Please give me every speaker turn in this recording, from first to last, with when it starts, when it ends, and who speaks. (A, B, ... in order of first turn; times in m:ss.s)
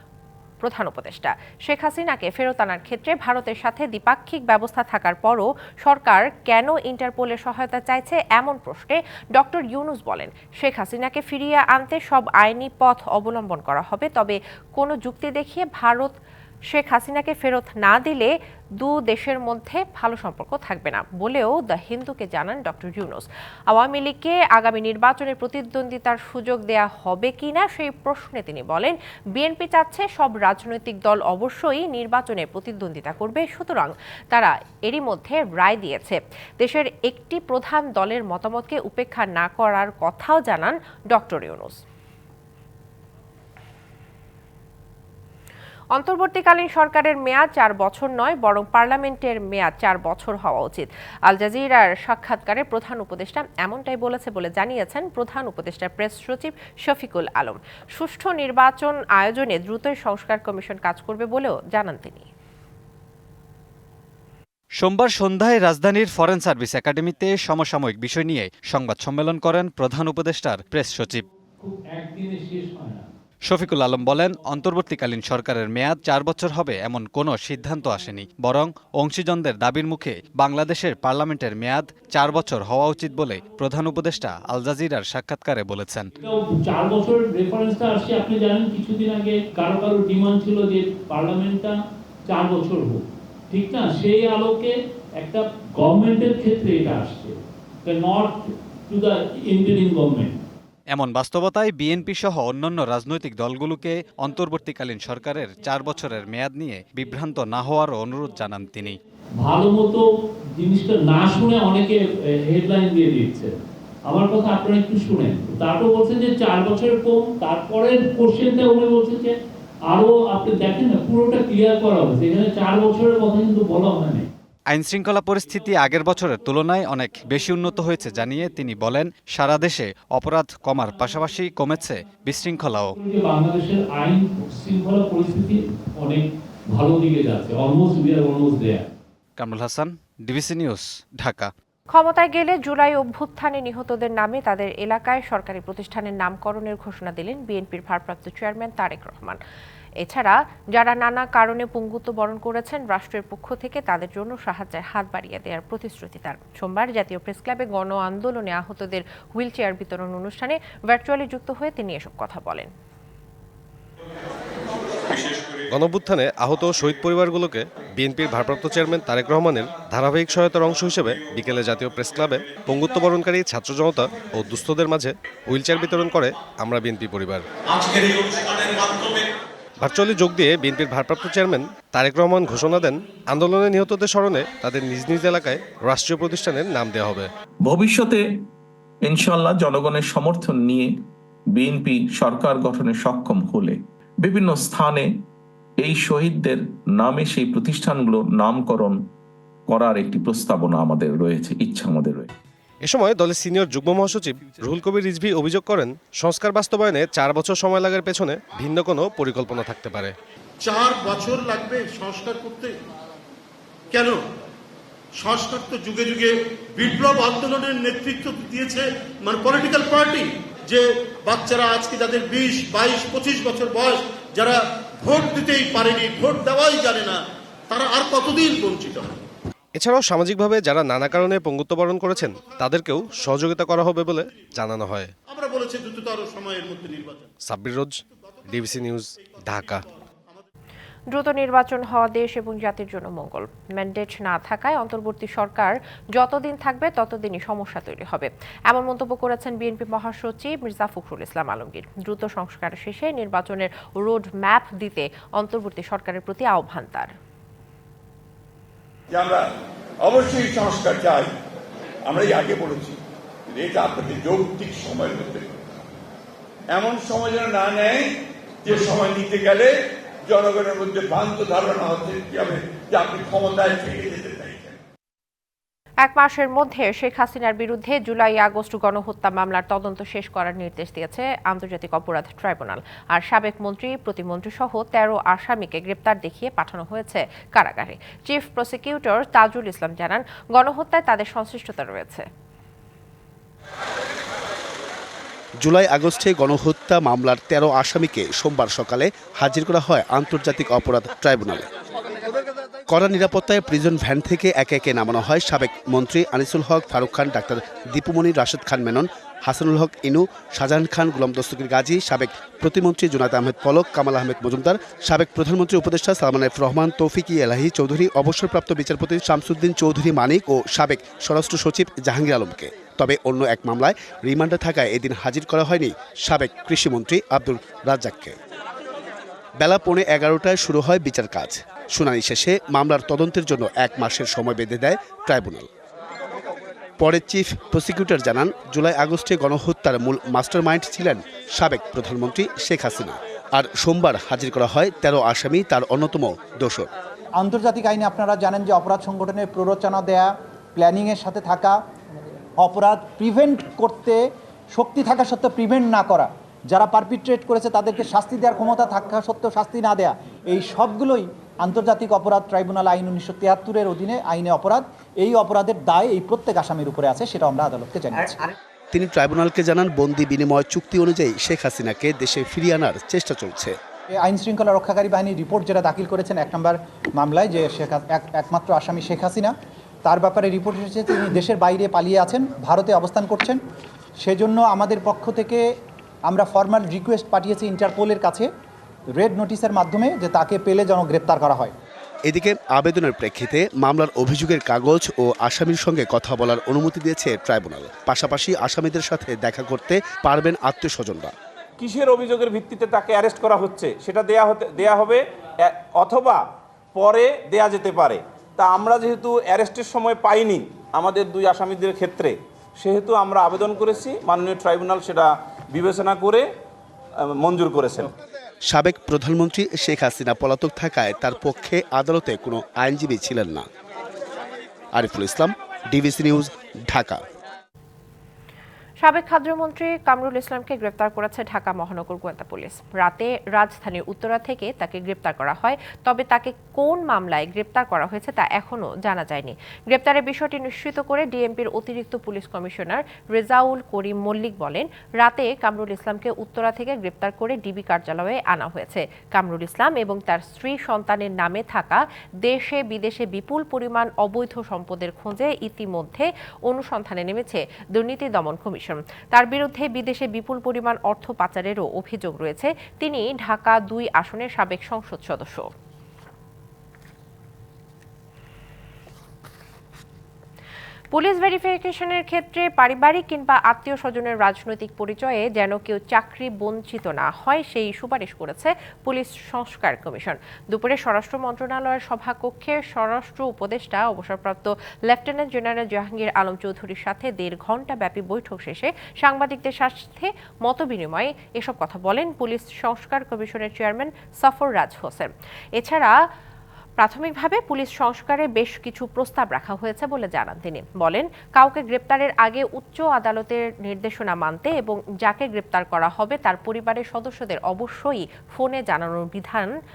0:00.6-0:16.1 A
0:16.7-0:41.8 A
0:45.9-1:02.3 A
1:04.8-1:11.2 B
1:11.6-1:13.0 C
1:13.5-1:26.1 B
1:26.2-1:31.8 C
1:32.3-1:40.4 C
1:40.9-1:49.0 B
1:49.4-1:50.0 C
1:50.6-1:53.5 C
1:54.1-1:59.3 C
1:59.9-2:04.3 C
2:04.7-2:12.9 B
2:13.0-2:18.8 C
2:19.4-2:21.5 B
2:21.9-2:29.4 A
2:30.0-2:42.7 A
2:45.7-2:57.4 D
2:59.8-3:07.3 D
3:07.6-3:08.2 E
3:09.0-3:10.9 E
3:11.5-3:15.1 E
3:15.8-3:19.0 E
3:19.7-3:22.3 E
3:22.8-3:30.1 D
3:30.6-3:32.7 F
3:35.2-3:44.5 F
3:45.0-3:47.2 F
3:47.7-3:49.2 F
3:49.8-3:55.1 D
3:55.3-3:57.3 F
3:57.4-3:57.9 D
3:58.5-3:59.8 D
4:01.1-4:17.1 A
4:19.1-4:19.4 G
4:20.0-4:21.3 G
4:22.1-4:23.0 G
4:23.5-4:25.6 G
4:26.7-4:28.0 G
4:28.6-4:29.7 G
4:30.3-4:34.7 G
4:36.0-4:52.2 A
4:55.6-5:01.7 H
5:02.9-5:28.4 H
5:29.6-5:35.7 H
5:37.0-5:46.9 H
5:47.4-5:51.8 I
5:52.6-5:54.2 I
5:54.7-6:08.4 I
6:08.9-6:13.8 H
6:14.2-6:19.5 I
6:20.0-6:23.6 I
6:24.2-6:25.7 I
6:26.3-6:28.5 I
6:29.2-6:31.7 I
6:32.3-6:41.3 H
6:41.8-6:46.4 J
6:47.0-6:56.4 J
6:57.3-6:58.1 J
6:58.7-7:03.6 H
7:04.9-7:07.2 H
7:09.0-7:45.7 A
7:51.1-8:16.1 A
8:17.0-8:29.7 A